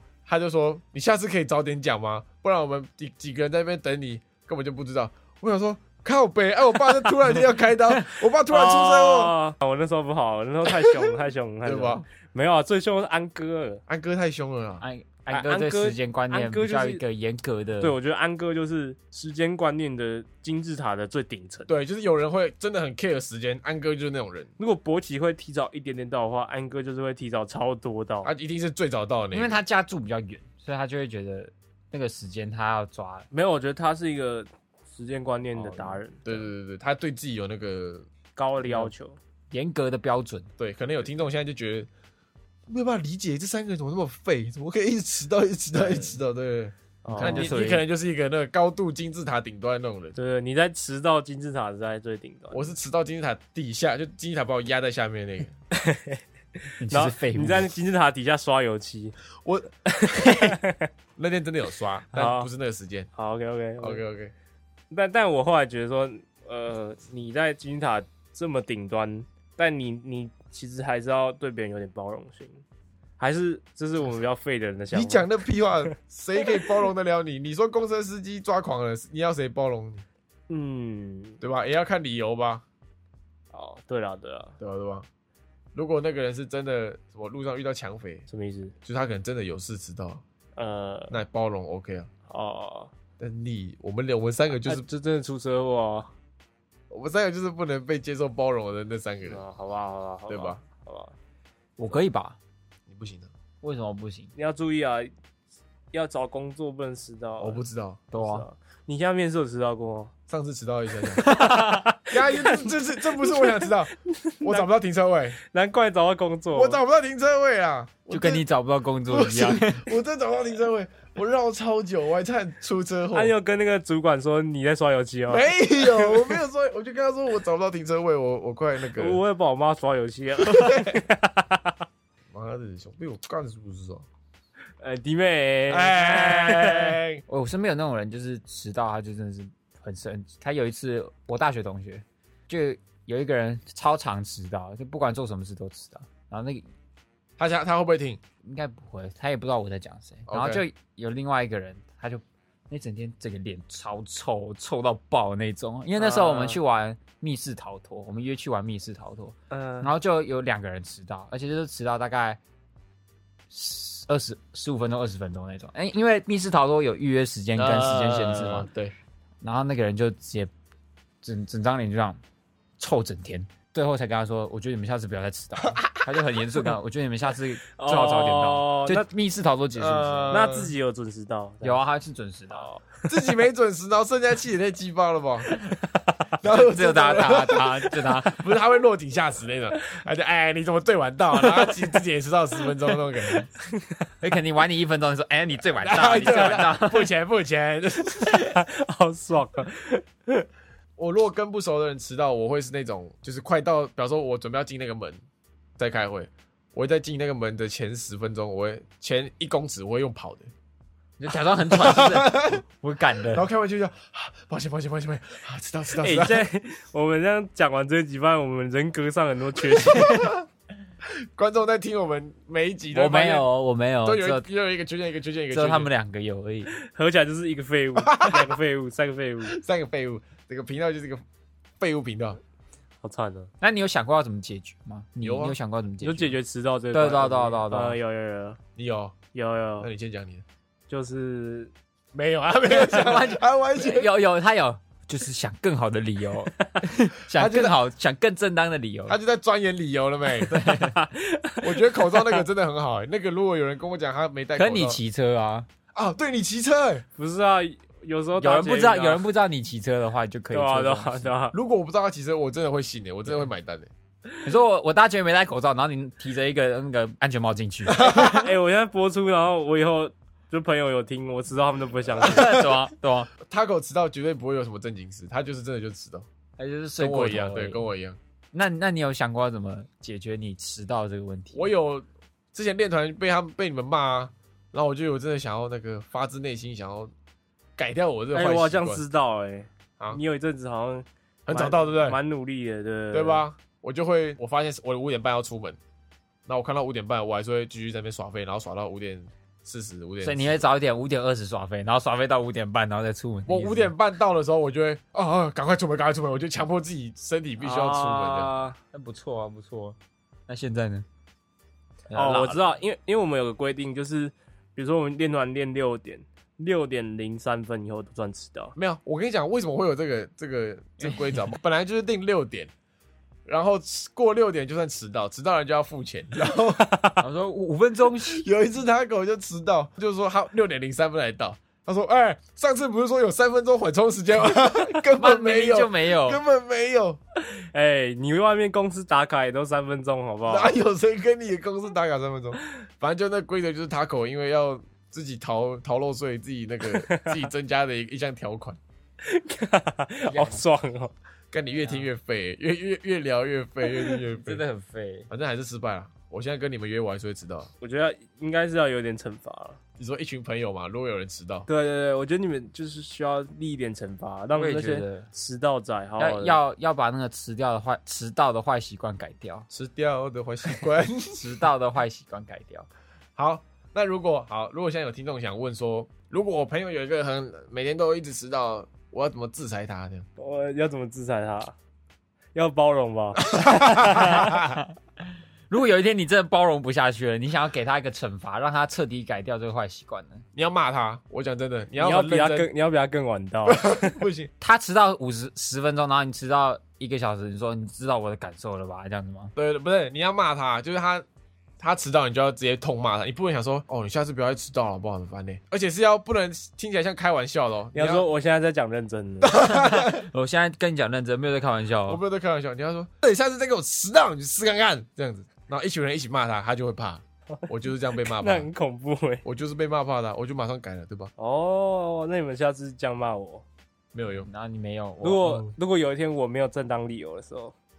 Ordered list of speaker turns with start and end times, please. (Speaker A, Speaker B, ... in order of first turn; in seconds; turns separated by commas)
Speaker A: 0.3-9.3, Speaker B: 8.5-13.8, Speaker A: 11.6-12.0, Speaker A: 13.9-14.8, Speaker C: 14.8-18.0, Speaker B: 15.3-17.0, Speaker B: 17.8-21.7, Speaker A: 21.7-24.5, Speaker B: 24.6-28.3, Speaker A: 28.2-29.6, Speaker C: 29.3-33.3, Speaker B: 33.3-36.5, Speaker C: 35.6-36.0, Speaker A: 36.2-38.1, Speaker B: 38.4-39.2, Speaker C: 39.5-40.5, Speaker A: 40.6-41.9, Speaker A: 42.7-50.2, Speaker C: 45.8-46.2, Speaker B: 47.0-47.6, Speaker C: 47.2-47.9, Speaker B: 50.1-52.7, Speaker A: 52.5-55.5, Speaker B: 55.7-56.2, Speaker C: 56.8-57.7, Speaker B: 56.9-59.1, Speaker A: 59.4-59.7, Speaker B: 59.9-60.9, Speaker A: 61.2-63.1, Speaker B: 62.1-62.5, Speaker B: 63.1-64.0, Speaker A: 63.8-64.3, Speaker B: 64.9-72.6, Speaker B: 73.2-75.3, Speaker A: 74.9-80.0, Speaker B: 80.5-81.4, Speaker A: 81.4-82.6, Speaker B: 83.5-84.6, Speaker A: 84.6-85.1, Speaker A: 85.8-88.3, Speaker B: 88.3-88.7, Speaker A: 88.8-90.2, Speaker B: 90.6-91.2, Speaker A: 91.1-92.1, Speaker B: 92.3-92.9, Speaker A: 93.2-94.9, Speaker B: 94.5-96.1, Speaker A: 96.9-99.4, Speaker B: 99.3-101.2, Speaker A: 100.3-100.6, Speaker C: 101.8-102.4, Speaker A: 102.9-103.3, Speaker C: 103.6-104.3, Speaker B: 104.3-105.1, Speaker B: 105.9-107.6, Speaker A: 107.4-108.0, Speaker C: 108.1-108.5, Speaker B: 108.1-110.1, Speaker A: 110.3-111.3, Speaker C: 111.2-111.8, Speaker B: 111.2-114.7, Speaker A: 112.1-115.4, Speaker B: 115.4-116.8, Speaker A: 116.5-118.4, Speaker C: 118.1-119.9, Speaker A: 119.1-123.3, Speaker B: 123.1-126.4, Speaker A: 125.3-129.2, Speaker B: 129.0-131.8, Speaker A: 130.5-131.0, Speaker A: 132.3-134.1, Speaker B: 134.8-137.0, Speaker A: 135.7-137.2, Speaker C: 137.3-146.7, Speaker A: 147.4-148.2, Speaker C: 148.4-162.4, Speaker A: 150.3-150.6, Speaker B: 156.0-156.6, Speaker B: 159.5-159.9, Speaker C: 163.5-168.7, Speaker A: 167.6-168.9, Speaker C: 169.4-170.5, Speaker C: 171.2-172.2, Speaker C: 172.8-180.5, Speaker B: 177.8-179.1, Speaker A: 179.8-180.7, Speaker B: 180.3-181.8, Speaker C: 181.6-182.7, Speaker B: 182.5-183.0, Speaker A: 183.1-185.5, Speaker A: 186.4-193.5, Speaker C: 186.5-188.5, Speaker B: 191.4-191.9, Speaker C: 194.2-197.1, Speaker A: 195.8-198.6, Speaker B: 198.3-200.5, Speaker A: 201.0-205.2, Speaker A: 205.8-210.5, Speaker C: 211.2-213.5, Speaker A: 211.7-212.6, Speaker A: 213.3-216.5, Speaker B: 216.0-220.3, Speaker A: 219.9-220.4, Speaker A: 221.1-223.5, Speaker C: 222.9-224.5, Speaker A: 224.1-225.9, Speaker C: 225.5-226.7, Speaker B: 226.7-229.6, Speaker A: 228.0-228.5, Speaker A: 229.4-231.2, Speaker A: 231.8-232.4, Speaker B: 233.0-233.5, Speaker C: 233.6-236.4, Speaker A: 235.2-235.6, Speaker B: 236.0-238.6, Speaker C: 236.9-238.0, Speaker A: 238.8-239.2, Speaker B: 239.3-239.9, Speaker A: 239.8-240.4, Speaker B: 240.9-241.7, Speaker A: 242.1-244.1, Speaker C: 242.7-249.2, Speaker A: 247.3-247.8, Speaker A: 249.1-250.7, Speaker C: 250.5-251.0, Speaker B: 250.8-252.4, Speaker A: 251.6-255.0, Speaker C: 254.6-255.7, Speaker A: 255.9-257.1, Speaker B: 257.2-259.2, Speaker C: 258.4-261.3, Speaker B: 260.5-261.6, Speaker A: 261.5-263.9, Speaker C: 264.4-268.3, Speaker A: 268.0-268.4, Speaker B: 268.0-272.5, Speaker C: 272.2-273.3, Speaker A: 272.3-272.6, Speaker A: 273.5-276.2, Speaker C: 276.6-277.8, Speaker A: 277.0-278.2, Speaker C: 278.5-281.7, Speaker A: 281.5-287.1, Speaker A: 287.8-289.0, Speaker B: 288.3-293.4, Speaker A: 291.5-292.2, Speaker A: 293.1-295.8, Speaker A: 296.5-300.7, Speaker C: 300.2-303.9, Speaker A: 303.5-308.5, Speaker B: 307.6-308.8, Speaker C: 308.9-310.0, Speaker C: 310.5-311.1, Speaker C: 312.1-312.6, Speaker B: 312.1-318.7, Speaker A: 318.8-322.7, Speaker A: 323.5-326.9, Speaker B: 326.8-327.2, Speaker C: 327.2-328.4, Speaker A: 328.3-337.2, Speaker C: 335.1-336.4, Speaker B: 337.4-340.7, Speaker A: 340.5-348.8, Speaker B: 347.0-347.4, Speaker B: 349.2-351.1, Speaker C: 350.3-350.6, Speaker A: 351.5-354.6, Speaker C: 354.3-355.3, Speaker A: 355.3-357.7, Speaker B: 357.8-359.8, Speaker A: 360.0-361.7, Speaker B: 361.7-366.6, Speaker C: 364.6-365.3, Speaker C: 366.2-369.7, Speaker A: 369.7-371.5, Speaker C: 371.4-372.9, Speaker A: 373.4-380.2, Speaker B: 380.4-381.8, Speaker B: 382.6-384.6, Speaker A: 383.5-384.8, Speaker C: 384.4-384.8, Speaker C: 385.7-390.4, Speaker A: 390.6-392.7, Speaker B: 392.0-394.2, Speaker A: 393.7-394.5, Speaker C: 394.6-399.5, Speaker A: 399.6-401.2, Speaker A: 401.8-408.3, Speaker B: 407.9-409.6, Speaker A: 409.4-410.2, Speaker C: 409.6-412.2, Speaker A: 412.1-418.7, Speaker B: 418.3-419.4, Speaker A: 419.4-421.3, Speaker B: 421.4-423.6, Speaker A: 424.1-424.5, Speaker C: 424.5-425.6, Speaker B: 425.2-427.8